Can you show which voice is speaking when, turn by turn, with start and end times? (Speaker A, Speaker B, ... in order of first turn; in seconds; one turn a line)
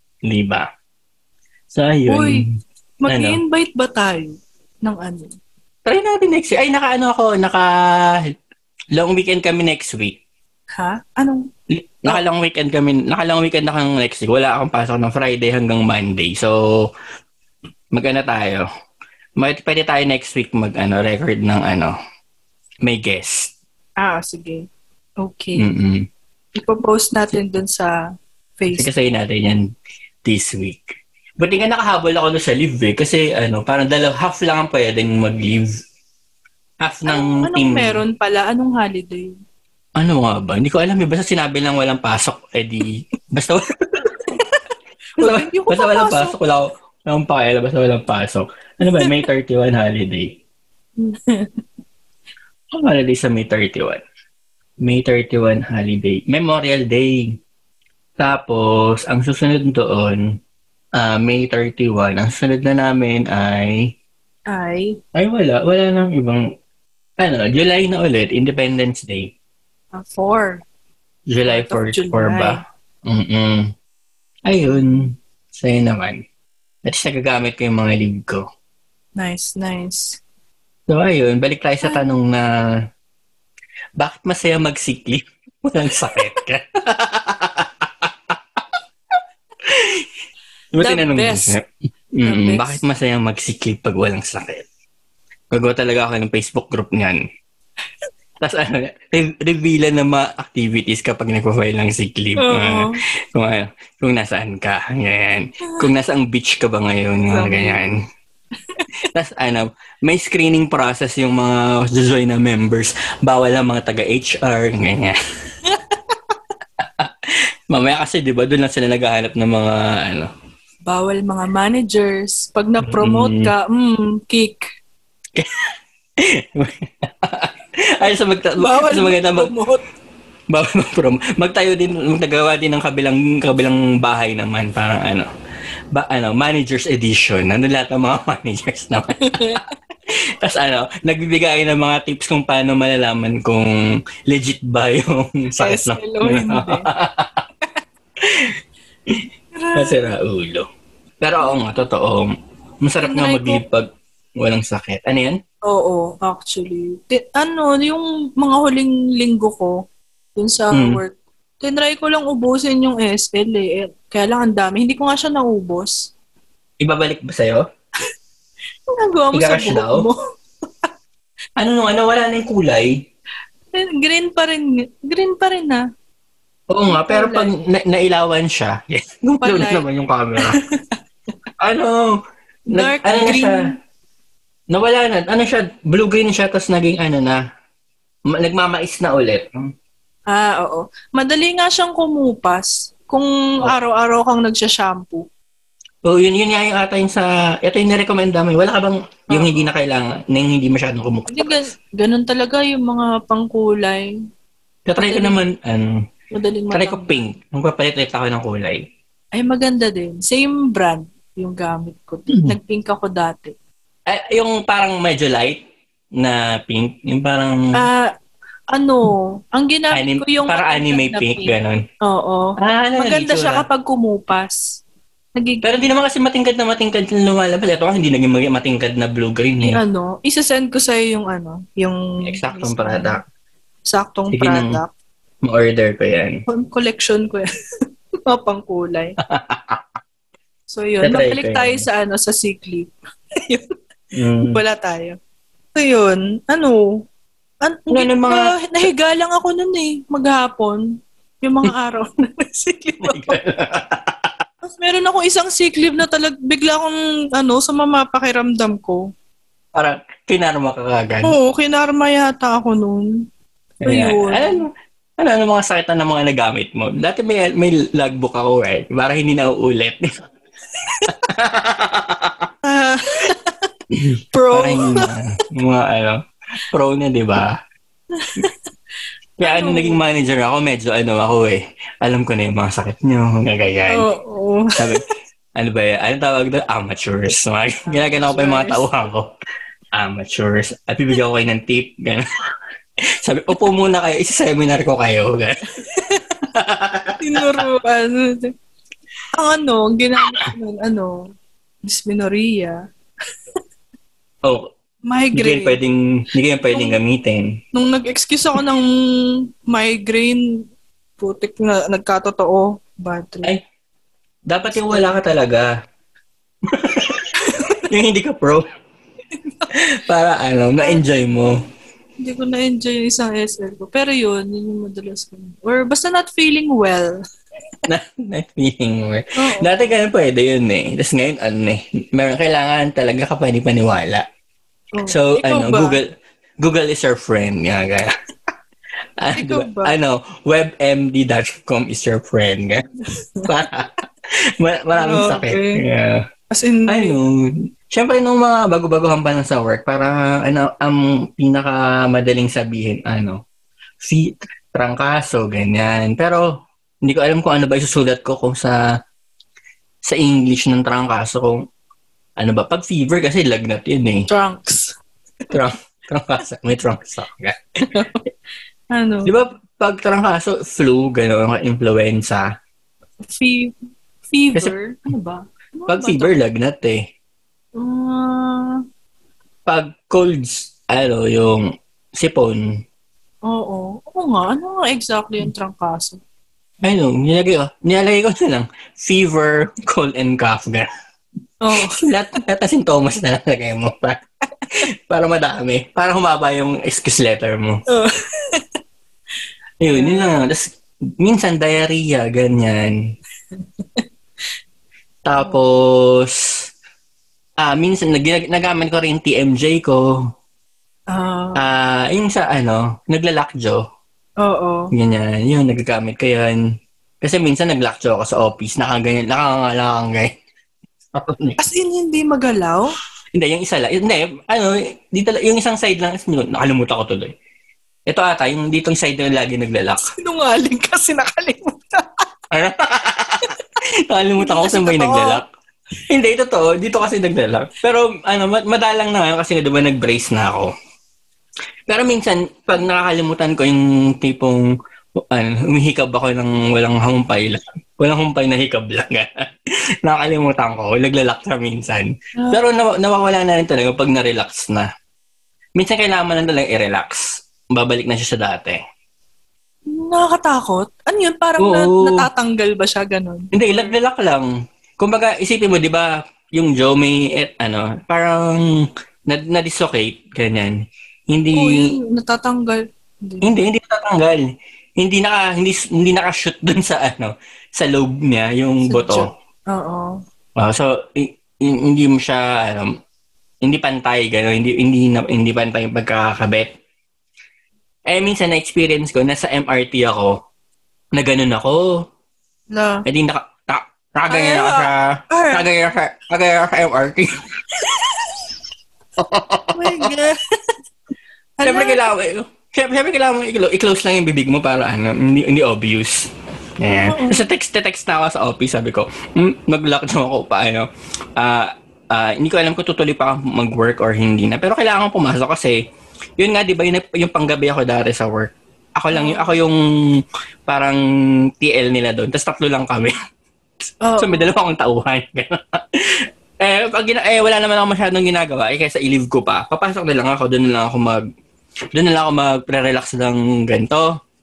Speaker A: 0.2-0.7
Speaker A: 1.7-2.6
Speaker B: 2.1-2.4
Speaker B: 3.0-5.3
Speaker A: 3.1-3.4
Speaker A: 5.8-8.3
Speaker A: 8.9-10.2
Speaker B: 10.7-11.5
Speaker A: 11.7-16.5
Speaker A: 17.9-18.6
Speaker A: 19.4-21.9
Speaker A: 22.8-23.5
Speaker B: 24.0-24.7
Speaker B: 25.2-25.6
Speaker A: 25.6-26.1
Speaker B: 26.6-27.9
Speaker B: 28.6-28.9
Speaker A: 28.7-29.6
Speaker A: 30.2-35.7
Speaker A: 36.8-38.0
Speaker B: 37.1-39.3
Speaker A: 40.0-44.4
Speaker A: 45.2-50.4
Speaker B: 45.2-46.4
Speaker B: 51.0-51.6
Speaker A: 52.7-54.0
Speaker A: 54.8-57.4
Speaker A: 58.2-60.2
Speaker A: 61.0-63.9
Speaker B: 64.5-65.0
Speaker A: 65.1-66.5
Speaker A: 67.2-69.3
Speaker B: 69.9-70.6
Speaker A: 71.3-73.7
Speaker B: 71.5-72.6
Speaker A: 74.5-76.2
Speaker B: 74.7-75.0
Speaker A: 76.8-78.4
Speaker B: 79.2-80.2
Speaker A: 80.9-82.5
Speaker A: 84.0-88.6
Speaker A: 89.7-90.1
Speaker A: 90.7-91.6
Speaker B: 90.8-91.5
Speaker A: 92.2-94.6
Speaker B: 92.2-92.8
Speaker A: 95.5-97.2
Speaker A: 98.4-108.0
Speaker B: 102.4-103.0
Speaker B: 107.3-107.8
Speaker A: 109.0-115.2
Speaker B: 115.6-116.3
Speaker A: 116.8-120.3
Speaker B: 120.9-124.6
Speaker A: 122.8-123.5
Speaker A: 125.3-129.5
Speaker B: 128.0-129.8
Speaker A: 130.5-135.3
Speaker A: 135.9-139.6
Speaker B: 139.2-139.7
Speaker A: 140.1-143.8
Speaker A: 144.3-147.4
Speaker B: 145.6-146.9
Speaker A: 148.2-148.5
Speaker B: 149.5-150.1
Speaker A: 149.7-150.7
Speaker A: 151.2-152.3
Speaker A: 152.8-153.9
Speaker B: 153.0-153.6
Speaker A: 154.4-155.4
Speaker B: 155.7-159.8
Speaker B: 160.3-166.1
Speaker A: 160.7-161.0
Speaker A: 166.8-167.6
Speaker B: 168.9-170.2
Speaker A: 169.3-170.1
Speaker A: 171.6-173.0
Speaker B: 173.7-175.8
Speaker A: 176.7-180.6
Speaker B: 176.9-177.5
Speaker B: 179.4-179.8
Speaker B: 180.4-181.0
Speaker A: 181.6-182.2
Speaker A: 182.7-183.7
Speaker B: 182.7-183.8
Speaker A: 184.7-187.4
Speaker A: 188.3-189.7
Speaker B: 190.3-195.2
Speaker A: 196.0-201.6
Speaker B: 199.3-199.7
Speaker B: 201.3-204.1
Speaker A: 204.9-206.0
Speaker B: 205.0-205.4
Speaker B: 206.3-207.2
Speaker A: 206.7-208.8
Speaker B: 209.3-213.5
Speaker A: 212.3-212.6
Speaker A: 214.1-215.6
Speaker A: 216.2-217.8
Speaker B: 217.7-218.1
Speaker B: 218.7-224.6
Speaker A: 219.9-221.8
Speaker A: 222.6-223.6
Speaker B: 225.3-225.8
Speaker A: 225.6-229.8
Speaker B: 229.6-233.2
Speaker A: 232.2-233.2
Speaker B: 233.9-234.9
Speaker A: 234.3-234.8
Speaker A: 235.4-236.4
Speaker B: 236.5-237.5
Speaker B: 238.2-239.2
Speaker A: 239.2-239.8
Speaker B: 240.7-243.7
Speaker A: 241.0-241.8
Speaker A: 244.1-244.6
Speaker B: 244.4-245.2
Speaker B: 245.7-246.9
Speaker B: 247.6-250.9
Speaker A: 247.9-248.5
Speaker B: 251.4-253.4
Speaker A: 253.0-254.3
Speaker B: 254.6-259.1
Speaker A: 259.7-261.3
Speaker B: 261.2-263.1
Speaker A: 263.8-270.1
Speaker B: 263.9-264.6
Speaker A: 271.0-272.5
Speaker B: 272.6-273.7
Speaker A: 273.9-277.6
Speaker B: 274.3-275.1
Speaker B: 278.1-278.6
Speaker A: 279.4-284.1
Speaker B: 279.4-280.0
Speaker B: 283.9-284.9
Speaker A: 284.8-289.3
Speaker B: 287.9-288.8
Speaker A: 289.9-292.2
Speaker A: 293.2-295.6
Speaker B: 295.8-296.2
Speaker A: 296.4-297.6
Speaker B: 297.2-298.5
Speaker B: 299.3-301.3
Speaker B: 301.9-302.8
Speaker B: 305.0-305.8
Speaker A: 305.3-307.6
Speaker B: 306.7-307.0
Speaker B: 307.7-310.6
Speaker B: 311.2-313.5
Speaker A: 314.5-315.7
Speaker B: 314.7-315.2
Speaker A: 316.7-318.6
Speaker B: 317.4-317.9
Speaker B: 319.3-319.6
Speaker A: 319.7-321.6
Speaker B: 322.2-327.2
Speaker A: 327.9-334.2
Speaker B: 329.4-330.0
Speaker B: 334.9-336.0
Speaker A: 335.1-336.1
Speaker A: 336.6-338.1
Speaker A: 339.2-342.8
Speaker B: 339.3-339.9
Speaker B: 343.2-343.5
Speaker A: 343.4-344.0
Speaker A: 344.6-346.2
Speaker B: 344.9-345.8
Speaker B: 346.5-347.1
Speaker A: 346.9-353.4
Speaker A: 354.0-356.4
Speaker A: 357.0-358.8
Speaker A: 360.0-361.6
Speaker A: 362.4-364.3
Speaker B: 364.3-364.9
Speaker A: 365.5-367.6
Speaker B: 367.9-368.2
Speaker B: 368.9-369.3
Speaker A: 369.2-372.4
Speaker B: 373.2-373.7
Speaker B: 374.3-376.3
Speaker A: 375.9-377.0
Speaker B: 377.8-378.8
Speaker A: 379.7-382.6
Speaker B: 383.4-386.2
Speaker A: 386.8-390.9
Speaker B: 391.6-392.0
Speaker A: 391.8-394.2
Speaker A: 394.7-397.8
Speaker B: 397.9-398.7
Speaker A: 399.8-402.9
Speaker B: 399.9-400.4
Speaker B: 403.5-404.0
Speaker A: 405.2-406.6
Speaker A: 407.6-410.0
Speaker B: 411.1-411.6
Speaker A: 411.5-413.8
Speaker B: 414.4-414.9
Speaker A: 414.9-416.6
Speaker A: 417.2-420.3
Speaker A: 421.1-421.6
Speaker B: 421.6-422.9
Speaker A: 423.3-427.3
Speaker A: 428.1-430.1
Speaker B: 430.1-432.2
Speaker A: 432.5-433.5
Speaker A: 434.1-435.4
Speaker B: 434.4-435.4
Speaker A: 436.1-440.7
Speaker A: 441.9-444.6
Speaker A: 445.2-449.4
Speaker A: 450.0-454.9
Speaker A: 455.8-458.8
Speaker B: 459.9-463.9
Speaker A: 461.6-462.2
Speaker A: 463.5-468.6
Speaker A: 469.3-470.7
Speaker A: 471.3-471.9
Speaker B: 471.5-473.5
Speaker A: 473.4-474.5
Speaker A: 475.0-479.3
Speaker B: 478.9-480.2
Speaker A: 480.6-482.9
Speaker A: 483.6-486.7
Speaker A: 488.1-490.3
Speaker A: 491.1-492.0
Speaker B: 492.7-493.0
Speaker A: 493.1-497.3
Speaker B: 494.3-495.6
Speaker A: 499.2-500.1
Speaker B: 499.7-500.7
Speaker B: 501.6-502.1
Speaker A: 501.6-515.8
Speaker B: 506.9-507.5
Speaker A: 516.4-519.8
Speaker B: 519.1-519.6
Speaker A: 520.7-521.0
Speaker A: 521.6-523.1
Speaker B: 524.0-524.5
Speaker A: 524.2-531.2
Speaker A: 531.9-534.1